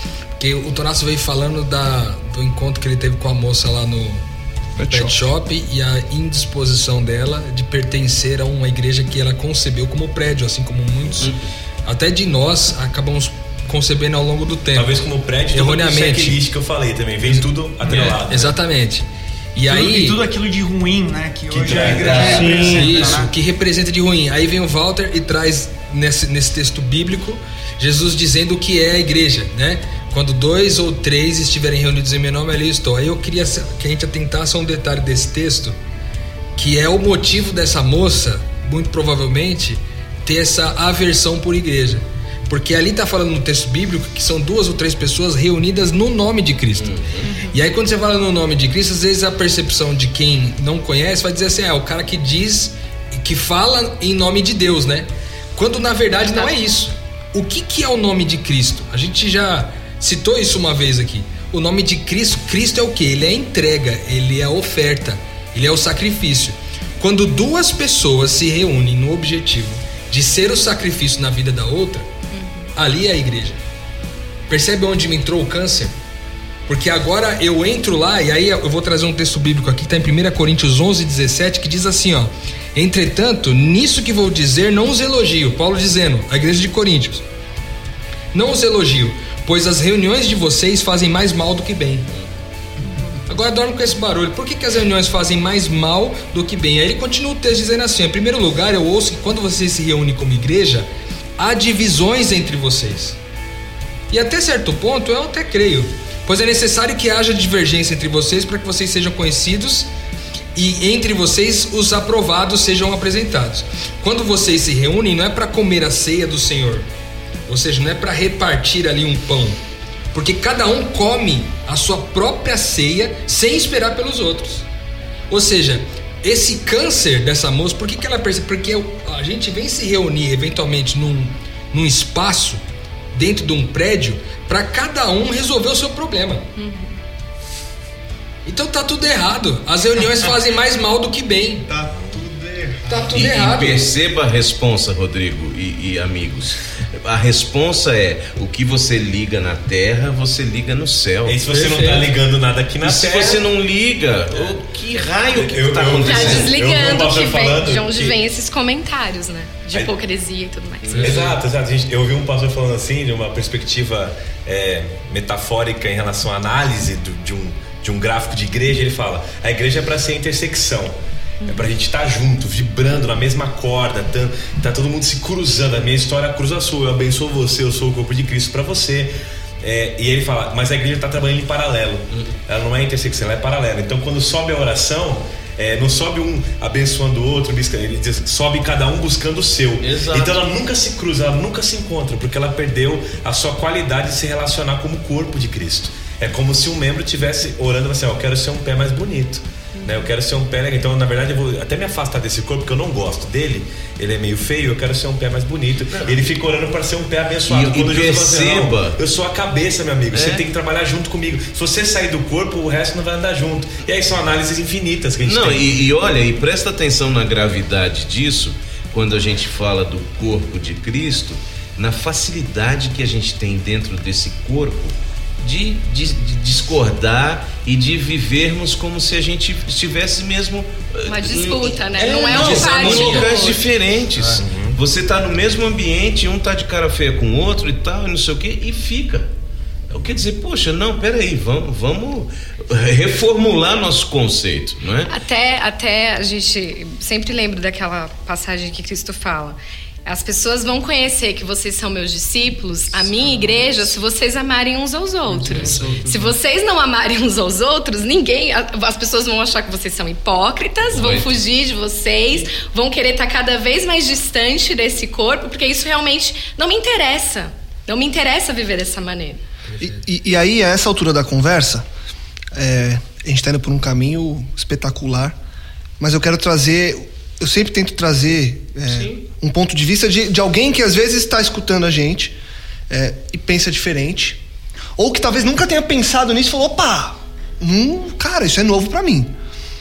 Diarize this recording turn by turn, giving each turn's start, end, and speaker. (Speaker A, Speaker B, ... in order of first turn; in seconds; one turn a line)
Speaker A: 0.4-4.2
Speaker B: 4.8-5.2
Speaker A: 4.9-11.3
Speaker A: 11.9-14.9
Speaker C: 14.7-18.6
Speaker A: 15.5-16.4
Speaker A: 17.3-20.2
Speaker D: 19.6-23.3
Speaker C: 21.5-22.9
Speaker E: 21.8-22.7
Speaker A: 21.8-35.8
Speaker A: 36.6-47.0
Speaker E: 46.8-47.3
Speaker F: 47.3-47.6
Speaker A: 47.5-72.1
Speaker F: 56.2-56.5
Speaker F: 72.3-72.7
Speaker A: 72.8-73.6
Speaker A: 74.5-75.9
Speaker A: 76.7-87.2
Speaker A: 88.3-92.1
Speaker A: 93.3-103.2
Speaker A: 104.1-109.9
Speaker A: 110.5-116.9
Speaker A: 117.5-119.6
Speaker A: 120.1-124.7
Speaker A: 125.3-132.6
Speaker A: 133.1-136.5
Speaker F: 136.6-137.0
Speaker A: 138.5-141.7
Speaker G: 141.7-143.3
Speaker A: 142.9-143.8
Speaker E: 143.1-151.4
Speaker C: 151.2-153.4
Speaker A: 151.5-152.1
Speaker E: 152.8-156.6
Speaker C: 154.3-154.6
Speaker C: 155.3-158.2
Speaker F: 156.0-161.2
Speaker E: 160.8-161.3
Speaker A: 160.9-161.3
Speaker C: 161.0-215.9
Speaker E: 189.8-190.4
Speaker E: 205.9-206.3
Speaker E: 207.5-209.0
Speaker E: 210.1-210.4
Speaker E: 215.2-239.3
Speaker F: 231.1-233.6
Speaker A: 232.3-233.3
Speaker C: 234.2-234.8
Speaker E: 239.9-245.2
Speaker F: 245.1-269.4
Speaker G: 255.3-256.4
Speaker A: 255.5-256.1
Speaker E: 260.9-261.3
Speaker A: 269.7-270.0
Speaker B: 269.8-271.9
Speaker B: 272.5-275.4
Speaker B: 276.0-282.4
Speaker B: 282.9-284.4
Speaker B: 285.0-289.3